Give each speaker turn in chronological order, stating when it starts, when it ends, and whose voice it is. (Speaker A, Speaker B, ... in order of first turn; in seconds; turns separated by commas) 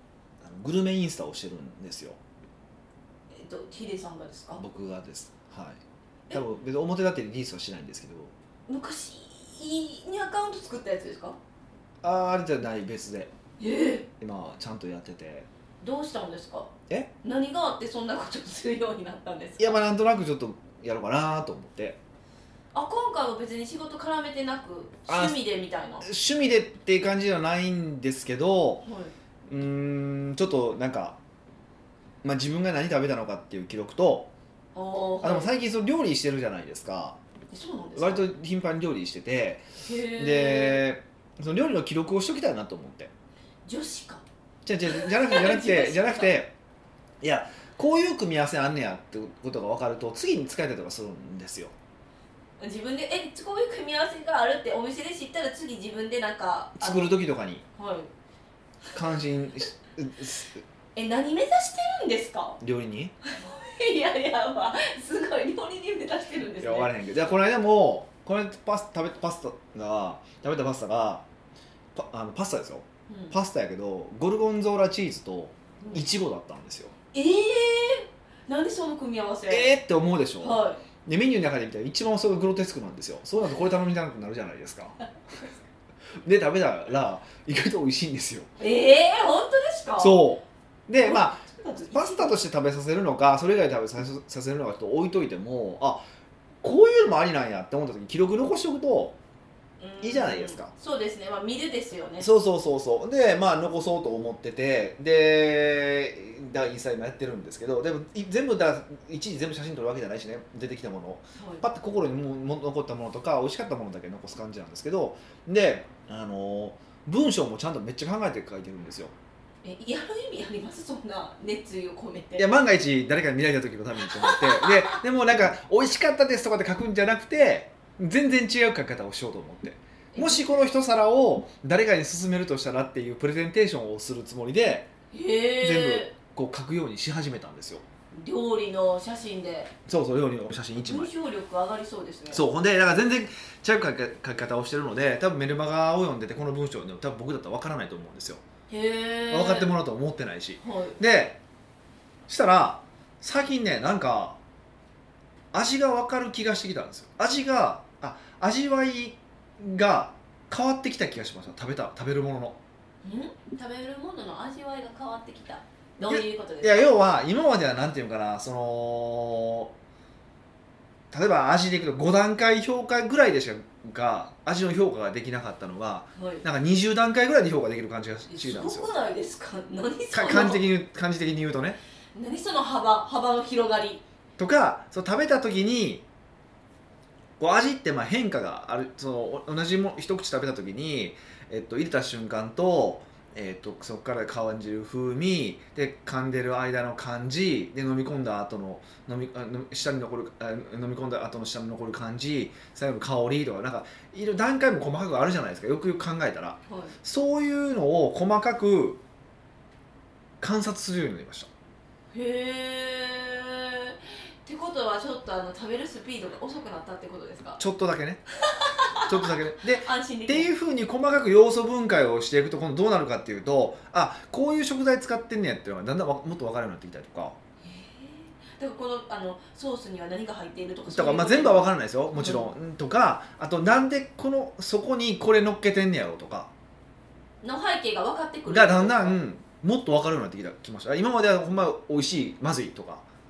Speaker A: 0.4-2.2, Speaker B: 3.3-4.6, Speaker A: 4.6-8.3, Speaker B: 8.7-11.4, Speaker A: 12.0-13.3, Speaker B: 13.6-14.1, Speaker A: 14.2-15.5, Speaker B: 15.8-16.7, Speaker B: 17.2-19.8, Speaker A: 19.6-22.0, Speaker B: 22.7-26.1, Speaker A: 25.1-25.4, Speaker A: 26.0-28.9, Speaker B: 28.8-29.1, Speaker A: 29.5-31.2, Speaker A: 32.2-34.3, Speaker B: 34.8-35.5, Speaker A: 35.2-37.2, Speaker B: 37.5-38.3, Speaker A: 38.0-43.1, Speaker B: 39.8-40.8, Speaker B: 43.6-44.2, Speaker A: 44.6-46.5, Speaker B: 44.9-46.3, Speaker A: 47.2-51.7, Speaker B: 52.6-57.2, Speaker A: 56.8-57.6, Speaker B: 57.8-58.1, Speaker A: 58.9-60.6, Speaker B: 61.0-62.6, Speaker A: 62.6-63.1, Speaker B: 63.2-66.9, Speaker A: 66.6-71.2, Speaker A: 72.0-76.9, Speaker B: 73.1-73.3, Speaker B: 77.1-79.7, Speaker A: 79.5-85.0, Speaker B: 80.4-80.8, Speaker A: 86.2-88.5, Speaker B: 88.6-90.2, Speaker A: 90.0-96.0, Speaker B: 91.0-92.3, Speaker A: 96.6-99.2, Speaker B: 99.8-102.3, Speaker A: 100.0-100.7, Speaker A: 102.2-119.1, Speaker B: 111.4-111.6, Speaker B: 119.6-122.6, Speaker A: 122.4-134.9, Speaker B: 124.0-125.0, Speaker B: 130.1-130.6, Speaker B: 135.1-136.1, Speaker A: 135.6-137.8, Speaker B: 138.1-139.7, Speaker A: 139.9-141.1, Speaker B: 140.8-142.4, Speaker A: 142.3-148.4, Speaker B: 148.7-149.7, Speaker A: 149.3-151.4, Speaker B: 150.6-151.0, Speaker A: 152.3-154.4, Speaker A: 155.5-162.6, Speaker B: 163.0-166.9, Speaker A: 166.0-169.7, Speaker A: 171.1-178.9, Speaker B: 176.2-176.4, Speaker B: 178.3-180.6, Speaker A: 180.1-181.8, Speaker B: 182.2-184.0, Speaker A: 184.4-186.1, Speaker A: 187.4-209.0, Speaker B: 206.7-207.0, Speaker A: 210.4-211.5, Speaker B: 212.1-217.6, Speaker A: 217.6-218.2, Speaker B: 218.4-220.5, Speaker A: 219.0-227.4, Speaker B: 227.6-232.5, Speaker A: 230.9-236.5, Speaker B: 237.4-239.2, Speaker A: 238.5-243.0